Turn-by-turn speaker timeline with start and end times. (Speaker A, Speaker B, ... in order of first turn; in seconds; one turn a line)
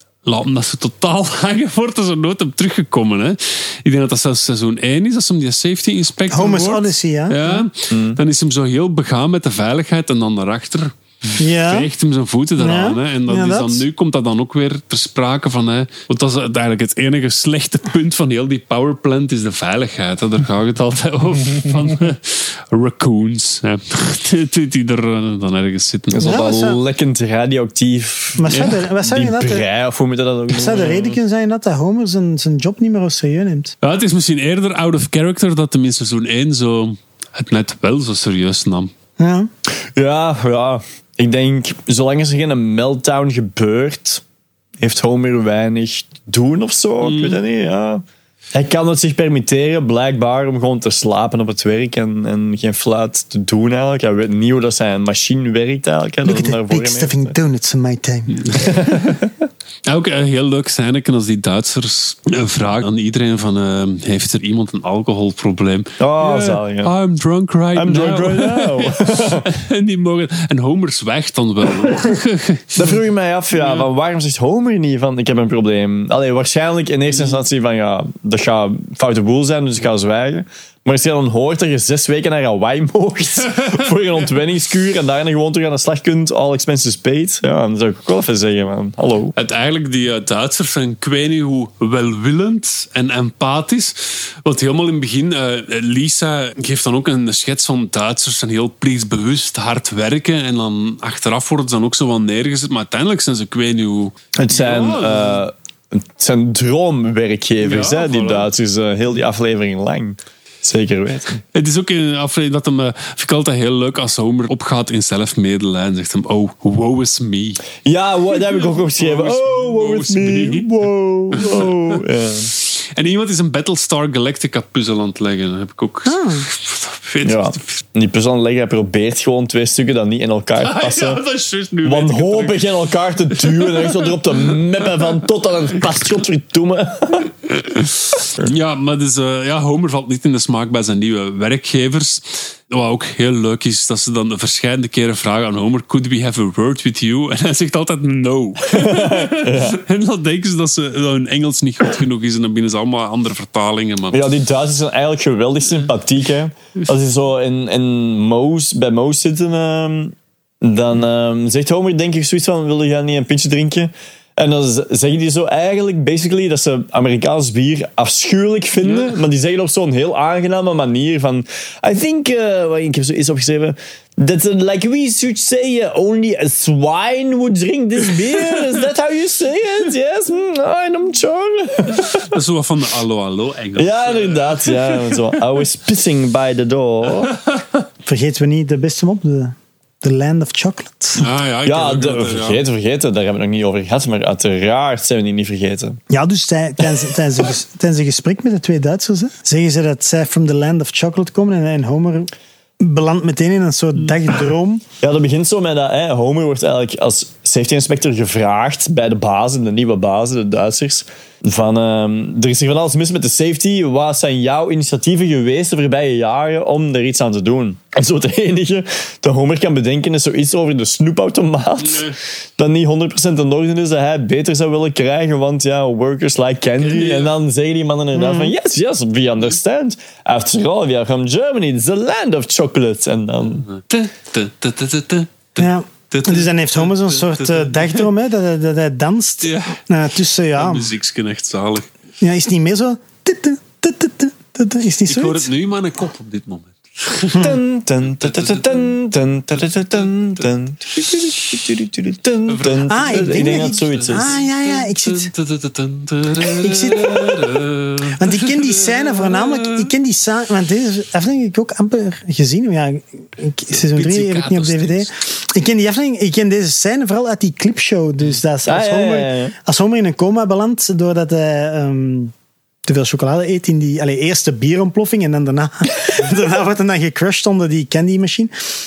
Speaker A: 0.2-26.4
Speaker B: 6.3-7.6
Speaker C: 7.9-8.2
Speaker B: 11.4-11.9
Speaker B: 12.6-13.8
Speaker C: 26.1-31.2
Speaker B: 26.2-26.8
Speaker B: 28.4-29.7
Speaker A: 28.5-28.8
Speaker B: 30.5-33.7
Speaker A: 33.8-38.9
Speaker B: 39.2-39.5
Speaker C: 39.7-44.2
Speaker C: 44.8-48.0
Speaker A: 47.0-47.4
Speaker C: 48.5-57.3
Speaker B: 56.2-58.5
Speaker A: 58.4-59.2
Speaker C: 58.5-59.4
Speaker A: 59.9-72.8
Speaker C: 66.0-66.9
Speaker C: 67.8-69.5
Speaker C: 72.7-89.3
Speaker A: 73.6-73.8
Speaker A: 77.1-77.4
Speaker A: 83.5-83.9
Speaker A: 89.3-105.4
Speaker C: 104.3-111.4
Speaker A: 107.6-108.5
Speaker A: 111.5-117.6
Speaker C: 117.8-122.5
Speaker A: 118.3-120.7
Speaker A: 121.3-127.8
Speaker B: 126.1-126.5
Speaker C: 127.2-131.2
Speaker A: 130.6-132.7
Speaker C: 131.8-137.3
Speaker A: 133.3-134.1
Speaker A: 137.5-154.3
Speaker C: 138.1-138.5
Speaker C: 148.7-149.8
Speaker C: 154.1-182.3
Speaker A: 168.8-169.2
Speaker A: 181.9-185.4
Speaker C: 183.8-187.3
Speaker A: 187.3-187.8
Speaker B: 188.1-191.2
Speaker A: 191.2-192.6
Speaker C: 191.6-196.0
Speaker B: 196.1-204.8
Speaker C: 205.0-233.7
Speaker A: 221.8-222.2
Speaker A: 226.8-227.3
Speaker B: 228.1-228.5
Speaker A: 233.6-238.1
Speaker B: 235.6-240.9
Speaker A: 239.4-239.8
Speaker A: 240.5-241.9
Speaker B: 242.2-245.5
Speaker A: 245.1-247.6
Speaker C: 247.4-254.4
Speaker A: 248.2-248.9
Speaker A: 252.4-259.9
Speaker B: 252.8-255.3
Speaker B: 256.4-272.3
Speaker A: 263.7-265.1
Speaker C: 268.6-269.5
Speaker B: 272.9-278.5